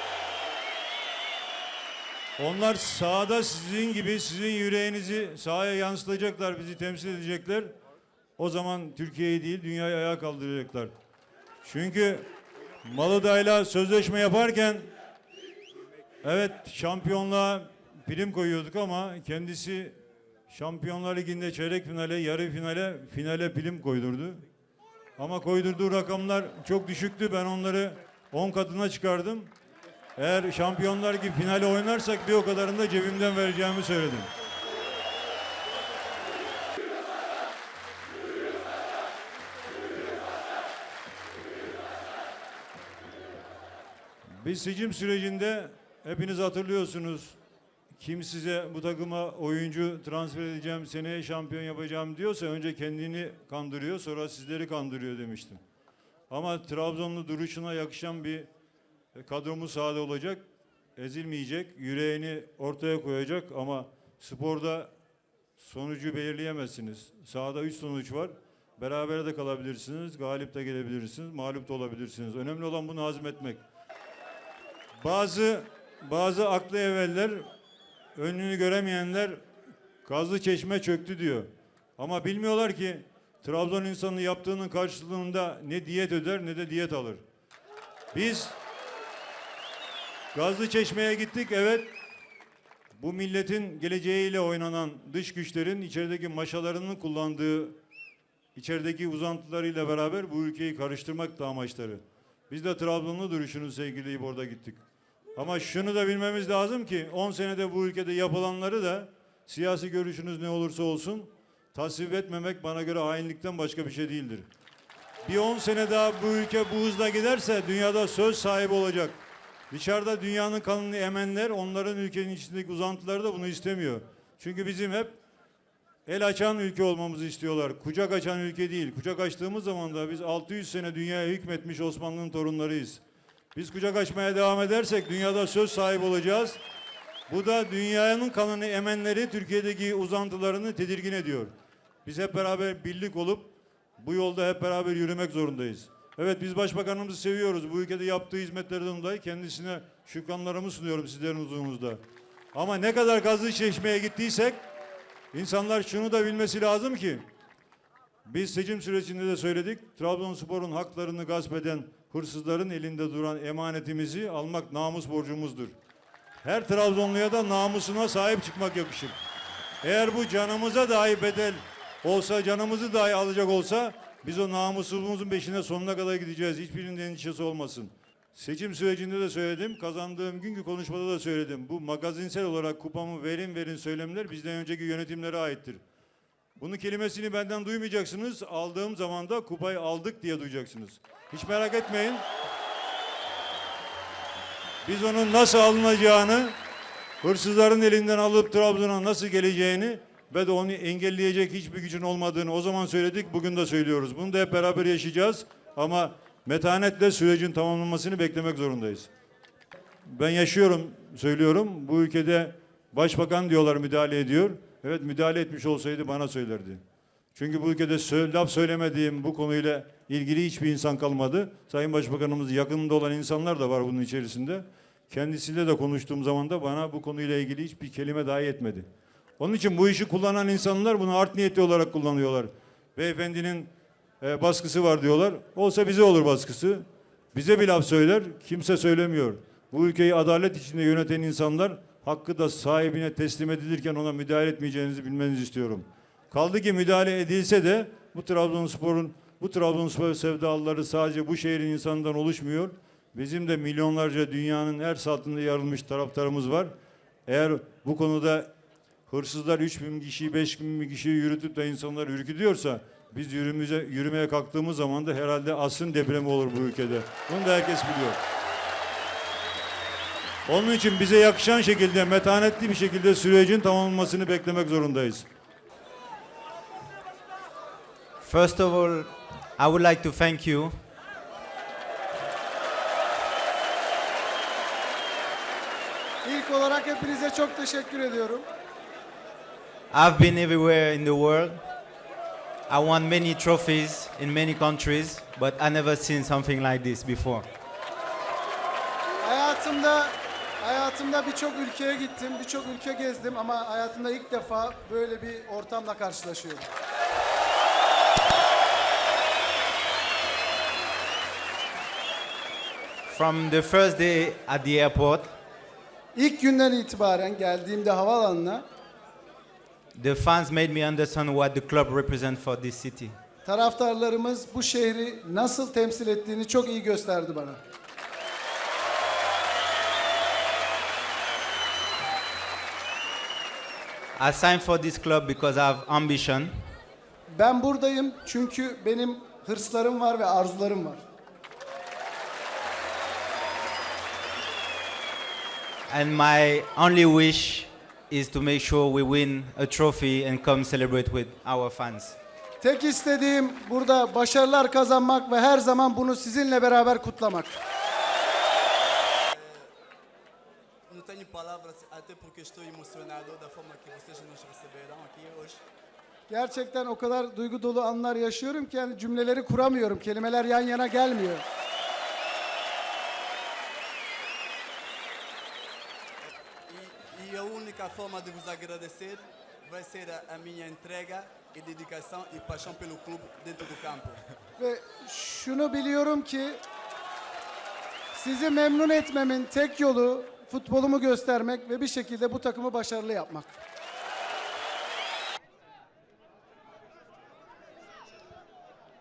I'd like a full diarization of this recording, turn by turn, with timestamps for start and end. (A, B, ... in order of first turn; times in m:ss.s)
0:02.4-0:07.7 A
0:08.4-0:10.9 A
0:11.6-0:12.3 A
0:12.8-0:14.9 A
0:16.2-0:20.0 A
0:20.5-0:24.4 A
0:25.2-0:29.5 A
0:30.2-0:34.3 A
0:44.4-0:47.4 A
0:47.9-0:55.6 A
0:56.3-0:58.5 A
0:59.1-1:00.4 A
1:01.0-1:04.9 A
1:05.6-1:13.6 A
1:15.0-1:17.5 A
1:18.2-1:19.4 A
1:20.0-1:27.2 A
1:28.1-1:28.6 A
1:30.3-1:31.9 A
1:33.0-1:37.8 A
1:38.5-1:44.8 A
1:45.4-1:54.5 A
1:55.2-2:05.2 A
2:06.0-2:13.0 A
2:13.5-2:16.6 A
2:17.3-2:21.5 A
2:22.0-2:32.0 A
2:32.5-2:34.6 A
2:35.3-2:37.2 A
2:38.2-2:45.7 A
2:46.4-2:49.2 A
2:49.8-3:05.8 A
3:06.6-3:12.2 A
3:14.8-3:16.6 A
3:17.2-3:29.1 A
3:30.0-3:36.8 A
3:37.3-3:48.9 A
3:49.4-4:16.7 A
4:17.3-4:18.5 A
4:19.1-4:28.2 A
4:30.4-4:35.3 A
4:38.2-4:40.7 B
4:46.2-4:48.4 C
4:49.9-4:51.6 B
4:52.7-4:57.4 B
4:59.2-5:06.6 C
5:13.0-5:15.3 B
5:16.1-5:18.6 C
5:19.9-5:23.2 B
5:23.4-5:27.6 C
5:34.2-5:36.6 B
5:37.3-5:41.0 C
5:45.9-5:52.2 B
5:52.6-5:57.6 C
5:59.3-5:59.7 D
6:00.9-6:05.6 D
6:06.3-6:11.4 C
6:16.2-6:24.2 D
6:24.6-6:26.6 C
6:28.1-6:33.6 C